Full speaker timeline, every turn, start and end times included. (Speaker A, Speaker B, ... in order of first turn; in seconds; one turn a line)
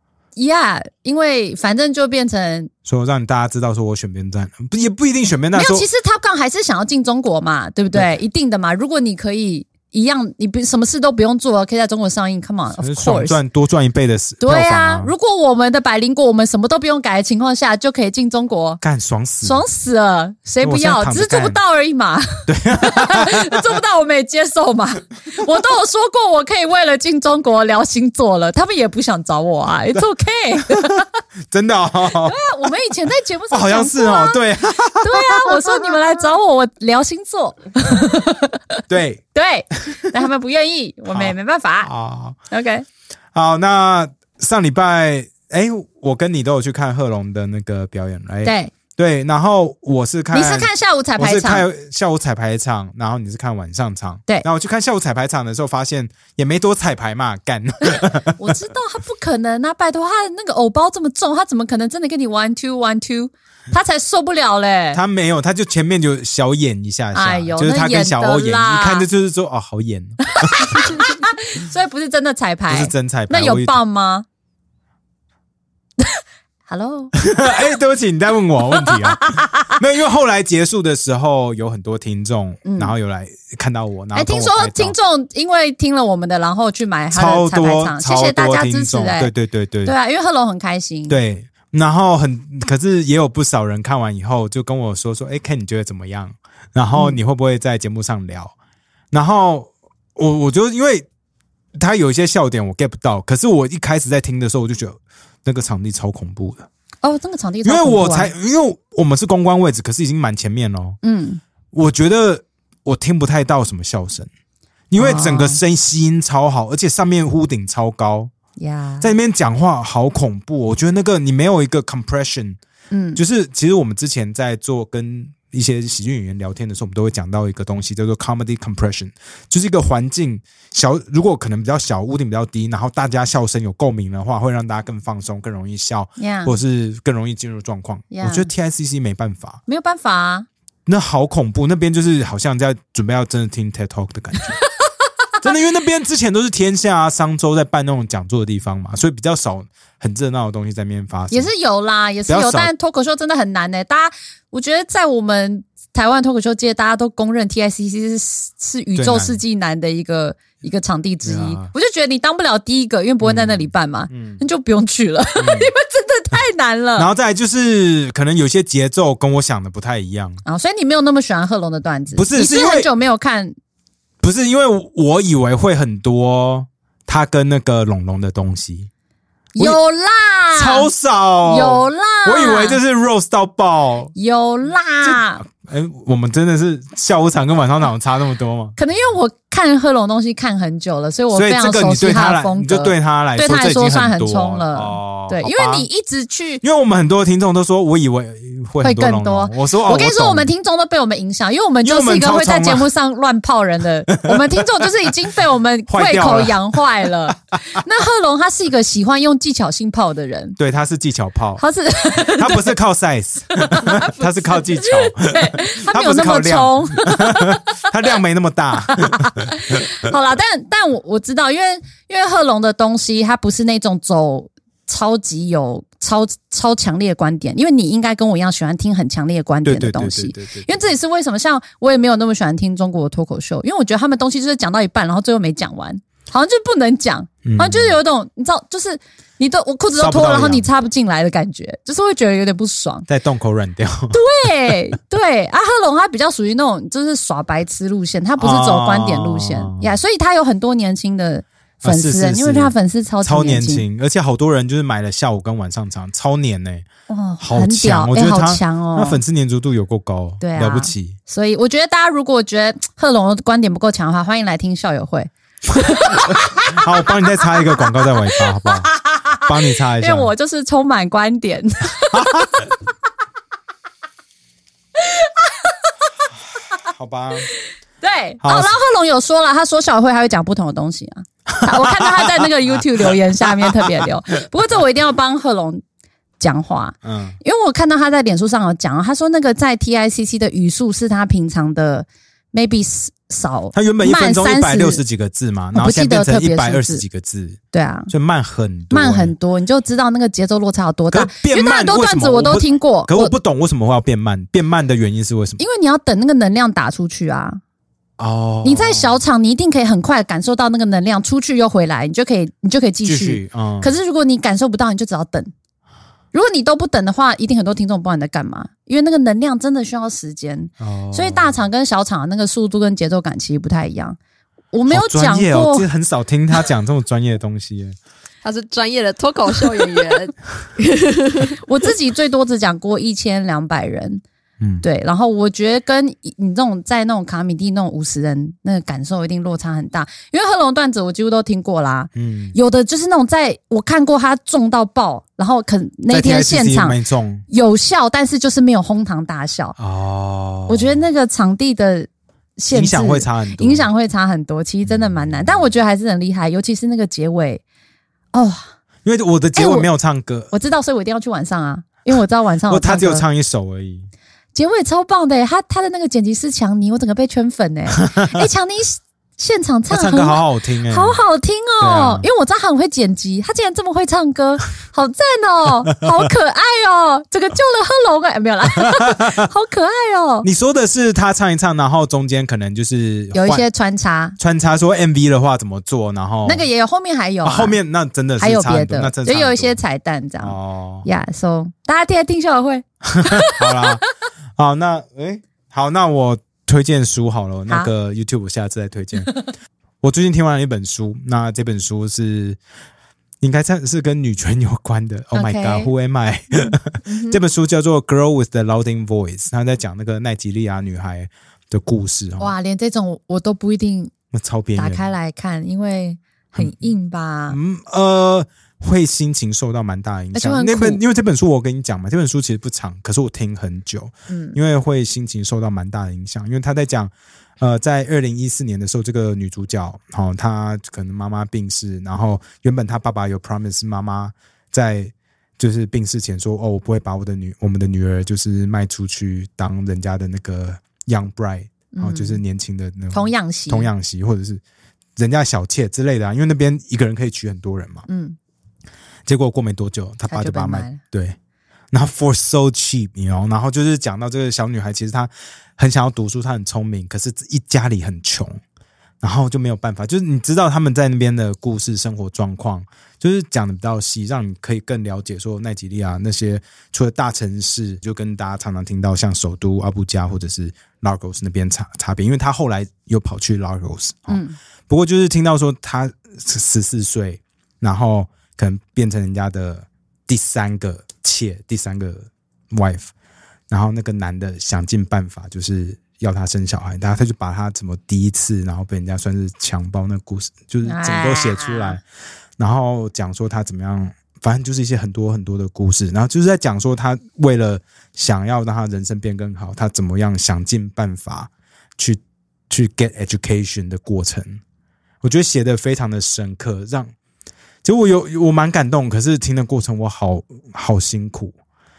Speaker A: 0.4-2.7
Speaker B: 2.9-5.9
Speaker A: 5.5-13.4
Speaker B: 12.7-15.1
Speaker A: 14.4-18.8
Speaker B: 18.8-19.6
Speaker A: 19.4-31.1
Speaker B: 20.6-21.6
Speaker B: 22.5-23.6
Speaker B: 31.5-32.4
Speaker A: 32.2-34.4
Speaker B: 33.5-36.0
Speaker A: 35.0-38.8
Speaker B: 38.9-39.2
Speaker A: 39.4-41.9
Speaker B: 41.1-42.4
Speaker A: 42.5-42.9
Speaker B: 43.3-58.5
Speaker A: 48.4-48.7
Speaker A: 50.3-51.7
Speaker A: 57.9-65.0
Speaker B: 64.9-71.1
Speaker A: 67.1-69.1
Speaker A: 70.3-74.3
Speaker B: 72.7-73.8
Speaker A: 76.0-77.2
Speaker B: 77.2-85.0
Speaker A: 78.9-79.7
Speaker A: 82.7-82.9
Speaker A: 84.1-89.3
Speaker B: 87.1-90.0
Speaker A: 89.8-91.2
Speaker B: 91.1-98.5
Speaker A: 96.9-97.2
Speaker B: 99.1-101.1
Speaker B: 101.8-106.7
Speaker A: 107.0-108.3
Speaker B: 107.6-111.0
Speaker A: 111.0-111.4
Speaker B: 111.7-114.3
Speaker B: 114.9-118.3
Speaker A: 115.0-115.6
Speaker A: 118.6-119.1
Speaker B: 119.0-122.6
Speaker A: 122.9-123.2
Speaker B: 123.2-139.6
Speaker A: 136.2-136.6
Speaker A: 138.1-138.5
Speaker A: 139.7-140.5
Speaker B: 140.9-144.6
Speaker B: 145.4-151.5
Speaker A: 151.3-167.1
Speaker B: 152.3-152.7
Speaker B: 159.0-159.4
Speaker B: 161.2-161.7
Speaker B: 163.2-164.4
Speaker B: 165.4-165.7
Speaker B: 167.0-170.4
Speaker A: 170.4-173.6
Speaker B: 172.1-172.9
Speaker B: 174.2-178.9
Speaker A: 179.6-180.9
Speaker B: 180.6-184.1
Speaker A: 181.4-182.8
Speaker A: 184.2-185.4
Speaker B: 185.0-188.8
Speaker A: 188.8-196.6
Speaker B: 191.3-195.9
Speaker B: 196.6-200.5
Speaker A: 198.8-210.6
Speaker B: 201.8-202.9
Speaker B: 204.1-204.8
Speaker B: 205.9-207.3
Speaker B: 210.6-211.6
Speaker A: 211.6-212.7
Speaker B: 212.2-219.9
Speaker A: 213.5-217.8
Speaker A: 218.9-243.1
Speaker B: 229.7-230.9
Speaker B: 237.4-238.0
Speaker B: 239.9-240.7
Speaker B: 243.1-244.2
Speaker A: 244.1-253.8
Speaker B: 248.4-249.9
Speaker B: 251.8-256.9
Speaker A: 257.1-259.2
Speaker B: 257.4-261.2
Speaker A: 260.4-266.9
Speaker B: 266.3-270.3
Speaker A: 267.6-272.7
Speaker B: 272.1-272.6
Speaker A: 275.0-275.7
Speaker B: 276.7-277.5
Speaker A: 278.0-285.8
Speaker B: 278.4-278.7
Speaker B: 281.6-282.5
Speaker B: 283.0-283.8
Speaker A: 286.4-295.0
Speaker B: 287.0-287.4
Speaker B: 293.7-299.3
Speaker A: 295.7-297.0
Speaker A: 297.7-298.1
Speaker A: 298.9-303.3
Speaker B: 301.1-305.6
Speaker A: 305.6-307.6
Speaker B: 308.2-309.2
Speaker A: 308.6-315.5
Speaker B: 313.1-313.9
Speaker A: 316.3-324.2
Speaker B: 320.8-321.6
Speaker A: 324.7-325.9
Speaker B: 324.9-328.0
Speaker C: 328.4-331.6
Speaker A: 331.6-334.2
Speaker B: 334.6-334.9
Speaker A: 334.8-349.8
Speaker B: 342.2-342.6
Speaker B: 346.1-347.4
Speaker B: 349.8-351.1
Speaker A: 350.7-357.6
Speaker B: 352.7-353.9
Speaker B: 354.9-355.7
Speaker A: 358.3-358.7
Speaker B: 359.1-360.5
Speaker A: 359.6-359.9
Speaker A: 360.5-363.2
Speaker B: 362.7-364.1
Speaker A: 364.6-380.5
Speaker B: 368.0-368.5
Speaker B: 369.9-371.2
Speaker B: 371.8-372.3
Speaker B: 378.8-379.4
Speaker B: 380.4-383.7
Speaker A: 383.3-384.4
Speaker B: 384.4-386.7
Speaker A: 386.4-387.8
Speaker B: 387.4-389.8
Speaker A: 388.4-393.9
Speaker B: 390.4-391.1
Speaker B: 393.1-394.0
Speaker B: 394.6-399.3
Speaker B: 400.0-402.6
Speaker B: 403.4-412.5
Speaker A: 405.3-405.9
Speaker A: 407.1-407.4
Speaker A: 412.4-414.1
Speaker B: 414.3-415.1
Speaker A: 414.8-417.6
Speaker B: 416.5-416.9
Speaker B: 417.5-444.6
Speaker A: 420.3-421.0
Speaker A: 424.3-424.6
Speaker A: 441.9-442.4
Speaker A: 443.1-443.9
Speaker B: 445.2-448.1
Speaker A: 448.1-448.4
Speaker B: 449.3-451.4
Speaker A: 450.3-451.0
Speaker B: 451.9-458.6
Speaker B: 459.2-483.1
Speaker A: 474.3-474.6
Speaker B: 483.7-492.0
Speaker A: 490.8-492.0
Speaker B: 492.6-504.6
Speaker B: 505.2-507.1
Speaker B: 507.8-511.6